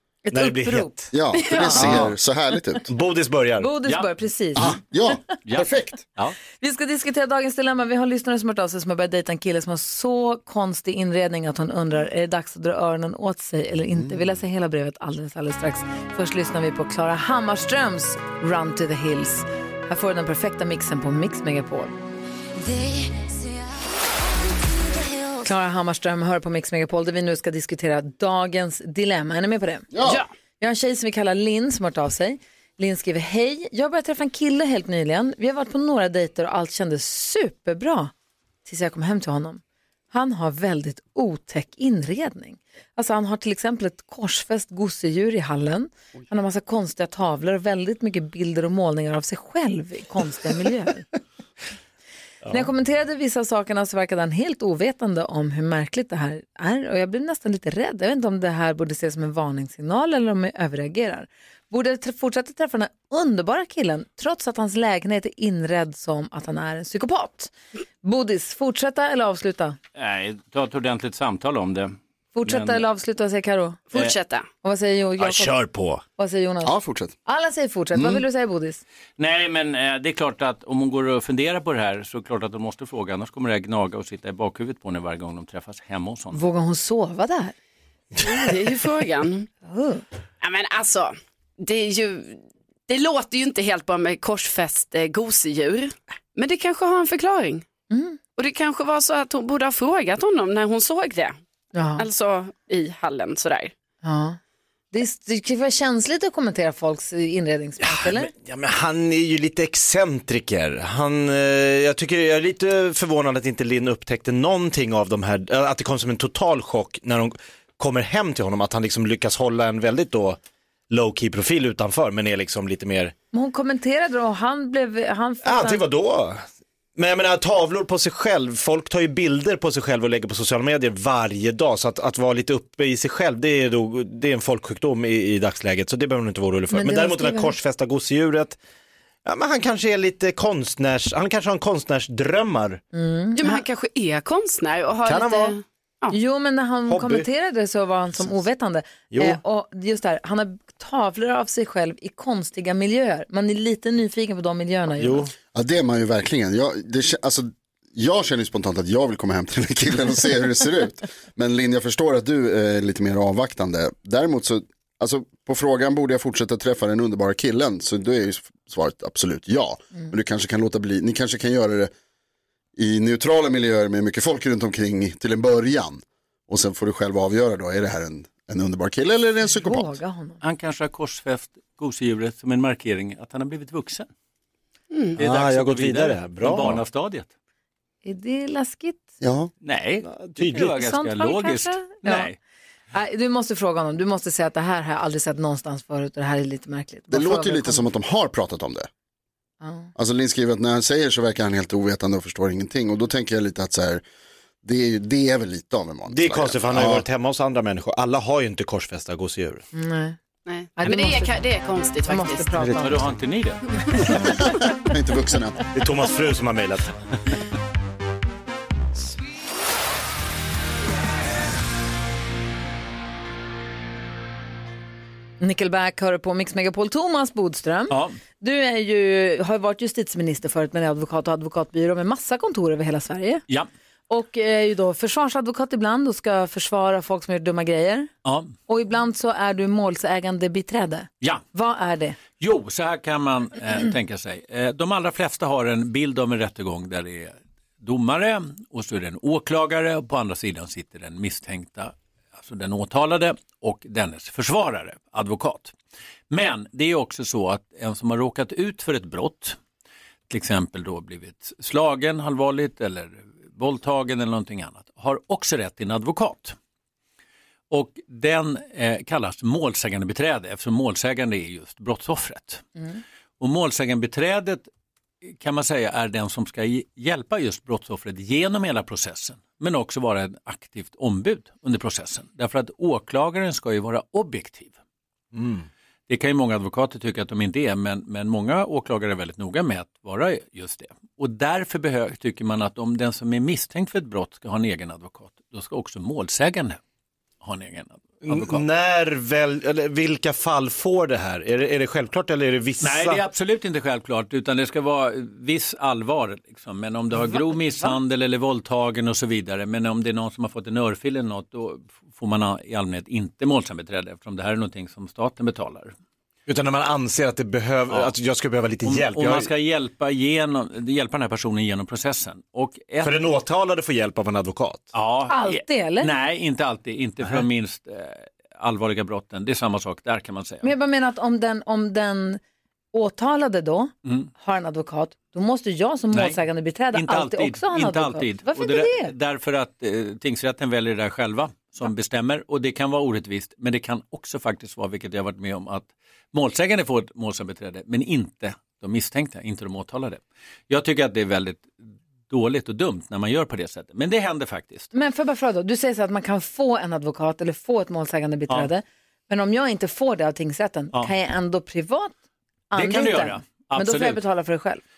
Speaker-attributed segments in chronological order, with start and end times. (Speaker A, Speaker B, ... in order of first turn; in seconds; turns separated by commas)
Speaker A: 0.2-1.1, Speaker B: 0.3-1.0, Speaker C: 1.1-2.9, Speaker D: 1.3-1.8, Speaker B: 1.7-2.2, Speaker B: 2.9-3.8, Speaker A: 3.6-4.8, Speaker E: 3.9-4.1, Speaker C: 4.6-6.0, Speaker E: 5.5-6.4, Speaker A: 6.6-21.9, Speaker A: 25.4-29.9, Speaker C: 29.9-30.2, Speaker D: 30.0-30.3, Speaker A: 30.6-38.1, Speaker A: 38.6-39.6, Speaker A: 40.1-51.1, Speaker A: 52.5-69.8, Speaker E: 70.0-72.8, Speaker A: 72.4-73.8, Speaker D: 73.9-74.5, Speaker A: 74.6-75.7, Speaker B: 75.2-76.0, Speaker A: 76.2-78.8, Speaker C: 76.6-77.2, Speaker E: 79.2-86.4, Speaker A: 86.3-87.5, Speaker D: 88.2-89.5, Speaker A: 89.7-90.0, Speaker D: 90.4-97.7, Speaker A: 97.9-98.2, Speaker D: 98.4-101.4, Speaker A: 101.7-102.0, Speaker D: 102.0-103.7, Speaker A: 104.0-104.4, Speaker A: 104.9-108.3, Speaker B: 107.8-120.4, Speaker B: 120.9-123.1, Speaker A: 123.3-125.8, Speaker B: 125.4-126.4, Speaker B: 127.0-138.6, Speaker A: 136.7-137.5, Speaker B: 139.2-142.8, Speaker A: 142.9-143.6, Speaker D: 143.4-146.2, Speaker B: 145.1-145.6, Speaker A: 146.1-155.3, Speaker B: 146.9-147.3, Speaker B: 149.1-149.4, Speaker B: 155.0-155.3, Speaker C: 155.5-171.9, Speaker C: 172.8-180.0, Speaker A: 179.4-180.4, Speaker E: 180.4-184.1, Speaker E: 185.2-187.3, Speaker B: 185.2-186.8, Speaker A: 188.1-189.1, Speaker C: 189.2-189.5, Speaker E: 189.6-192.4, Speaker B: 190.0-190.8, Speaker A: 190.7-192.3, Speaker A: 192.9-197.8, Speaker C: 197.1-198.9, Speaker A: 199.6-199.9, Speaker C: 200.0-204.0, Speaker C: 204.6-207.1, Speaker B: 206.1-209.6, Speaker A: 209.7-210.2, Speaker D: 210.5-212.5, Speaker A: 210.8-211.4, Speaker A: 212.1-213.1, Speaker E: 212.8-214.1, Speaker C: 214.3-215.6, Speaker B: 215.7-216.9, Speaker A: 225.4-233.4, Speaker E: 227.9-228.2, Speaker A: 234.1-238.1, Speaker E: 238.2-238.6, Speaker A: 238.7-242.2, Speaker E: 242.4-255.7, Speaker E: 256.3-259.6, Speaker E: 260.3-266.6, Speaker E: 267.7-272.6, Speaker E: 273.4-274.7, Speaker E: 275.3-284.8, Speaker B: 285.3-285.7, Speaker E: 286.1-296.8, Speaker E: 297.4-298.7, Speaker B: 298.3-303.2, Speaker E: 302.8-315.9, Speaker B: 316.5-319.5, Speaker E: 318.8-323.2, Speaker B: 323.0-324.9, Speaker E: 324.9-330.7, Speaker A: 325.3-326.1, Speaker A: 330.6-332.4, Speaker A: 332.9-339.1, Speaker E: 334.1-334.3, Speaker E: 336.1-336.4, Speaker E: 336.9-351.8, Speaker E: 352.3-354.9, Speaker A: 354.9-362.1, Speaker A: 362.7-364.8, Speaker E: 362.7-364.2